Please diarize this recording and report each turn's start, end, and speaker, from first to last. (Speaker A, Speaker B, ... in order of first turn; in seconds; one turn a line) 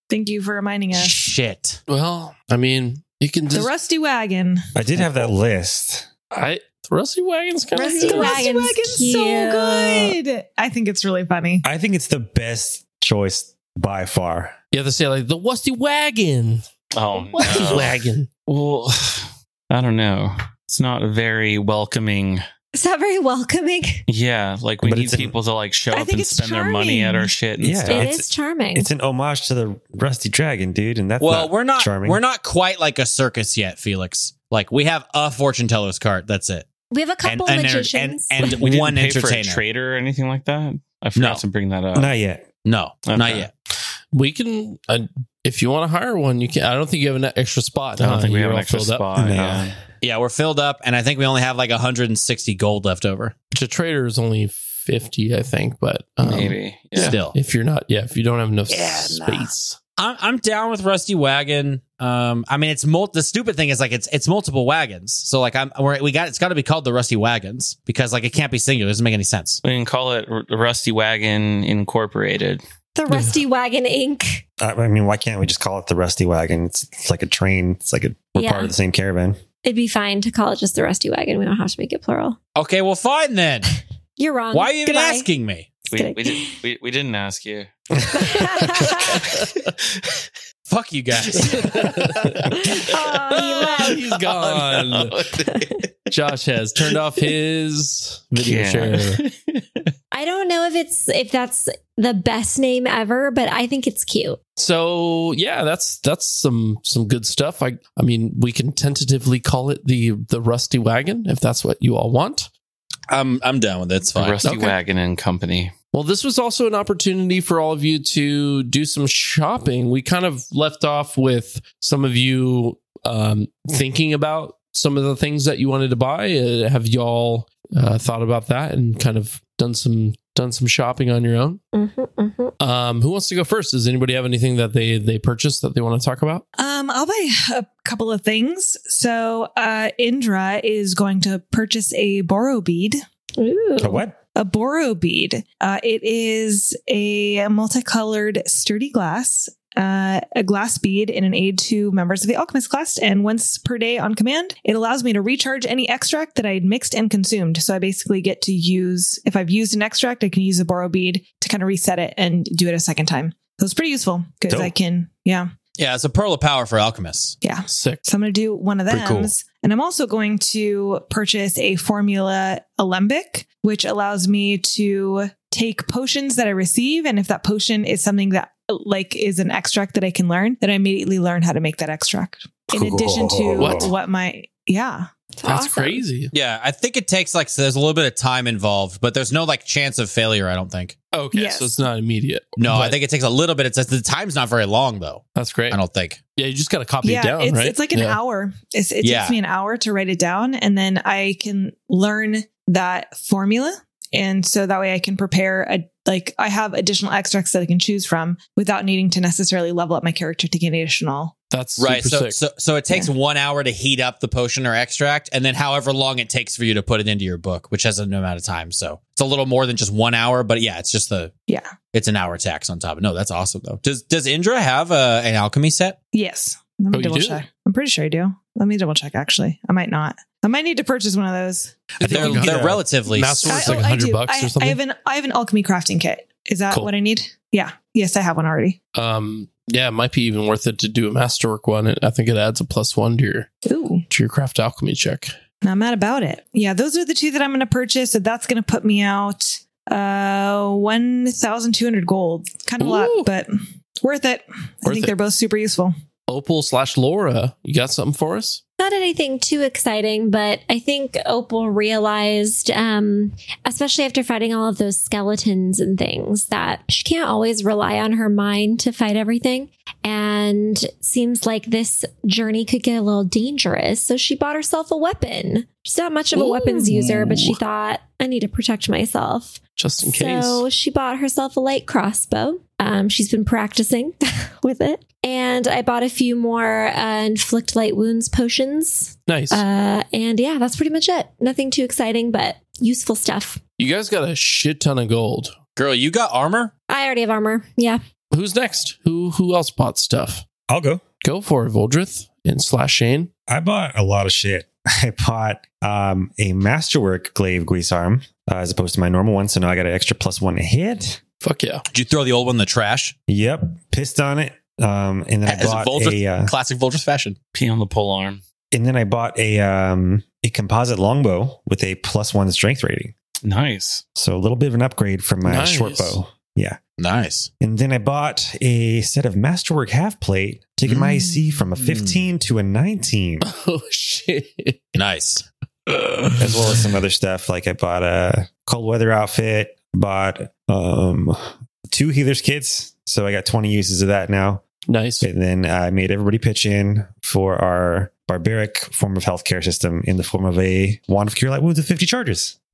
Speaker A: 0.1-1.1
Speaker B: 0.9-1.8
Speaker C: 1.9-3.7
Speaker A: 3.5-4.7
Speaker D: 4.7-6.1
Speaker C: 6.3-8.4
Speaker E: 7.8-10.1
Speaker A: 7.8-11.6
Speaker D: 11.6-14.5
Speaker C: 14.7-16.6
Speaker F: 16.9-22.4
Speaker C: 17.3-18.3
Speaker E: 22.7-24.0
Speaker F: 24.1-28.1
Speaker D: 24.8-25.3
Speaker A: 25.9-27.3
Speaker D: 27.6-32.2
Speaker E: 27.9-28.9
Speaker B: 31.2-36.7
Speaker E: 36.9-38.5
Speaker B: 37.2-39.6
Speaker F: 38.4-42.1
Speaker B: 41.1-41.4
Speaker D: 41.9-42.4
Speaker B: 42.6-43.5
Speaker F: 43.0-43.5
Speaker C: 44.1-49.0
Speaker F: 48.0-49.8
Speaker D: 49.1-49.7
Speaker B: 50.0-53.3
Speaker C: 53.5-59.8
Speaker F: 56.2-57.2
Speaker B: 57.0-57.3
Speaker B: 58.7-69.6
Speaker F: 69.6-72.6
Speaker E: 72.9-74.4
Speaker D: 74.6-79.4
Speaker E: 78.3-78.7
Speaker E: 79.6-82.4
Speaker B: 82.5-83.7
Speaker E: 84.2-85.3
Speaker B: 84.5-85.7
Speaker F: 85.9-90.2
Speaker E: 85.9-86.6
Speaker E: 88.2-89.2
Speaker B: 90.7-91.9
Speaker C: 91.3-92.6
Speaker F: 91.4-92.5
Speaker E: 92.5-94.0
Speaker F: 93.3-95.9
Speaker C: 93.3-95.3
Speaker E: 95.4-95.8
Speaker C: 96.1-99.2
Speaker F: 98.4-99.6
Speaker E: 100.1-104.4
Speaker C: 104.6-112.5
Speaker B: 113.1-114.4
Speaker F: 114.1-115.7
Speaker C: 114.4-114.8
Speaker C: 115.9-131.6
Speaker E: 131.7-132.5
Speaker C: 132.6-136.4
Speaker A: 136.6-143.0
Speaker E: 143.4-144.0
Speaker D: 143.8-144.2
Speaker A: 144.3-165.5
Speaker D: 164.5-164.7
Speaker B: 165.8-167.3
Speaker A: 167.4-185.1
Speaker C: 167.7-168.0
Speaker B: 168.9-169.3
Speaker D: 182.7-183.9
Speaker C: 183.5-183.9
Speaker E: 185.3-186.0
Speaker C: 185.4-186.3
Speaker B: 186.3-190.9
Speaker C: 191.1-193.0
Speaker A: 191.3-191.7
Speaker B: 192.6-196.2
Speaker C: 195.3-195.8
Speaker C: 196.3-198.2
Speaker A: 197.0-211.3
Speaker B: 199.0-199.4
Speaker C: 211.5-212.4
Speaker B: 211.8-221.3
Speaker B: 221.9-226.0
Speaker A: 226.1-231.9
Speaker C: 226.9-227.4
Speaker C: 232.0-234.8
Speaker B: 232.0-233.8
Speaker D: 232.3-232.7
Speaker A: 233.4-238.8
Speaker C: 238.9-243.5
Speaker A: 243.7-244.0
Speaker C: 244.1-245.3
Speaker A: 245.6-255.9
Speaker C: 252.8-253.3
Speaker C: 254.8-255.1
Speaker C: 256.3-258.6
Speaker E: 258.8-293.6
Speaker C: 276.3-277.6
Speaker C: 279.8-280.6
Speaker C: 289.3-289.6
Speaker C: 293.8-295.6
Speaker B: 295.8-296.7
Speaker E: 296.9-298.0
Speaker C: 298.3-300.4
Speaker D: 300.7-301.0
Speaker C: 301.2-303.3
Speaker D: 303.5-311.2
Speaker C: 311.4-311.8
Speaker B: 311.9-313.1
Speaker D: 313.3-316.5
Speaker B: 315.5-317.4
Speaker F: 317.5-318.4
Speaker D: 318.7-323.1
Speaker F: 323.4-324.0
Speaker D: 324.1-326.8
Speaker C: 325.4-326.2
Speaker B: 327.0-327.5
Speaker D: 327.6-333.5
Speaker B: 330.9-331.2
Speaker B: 331.7-332.2
Speaker C: 333.4-335.0
Speaker B: 334.9-335.4
Speaker C: 335.9-336.8
Speaker D: 336.4-344.6
Speaker C: 344.9-345.3
Speaker D: 345.2-352.6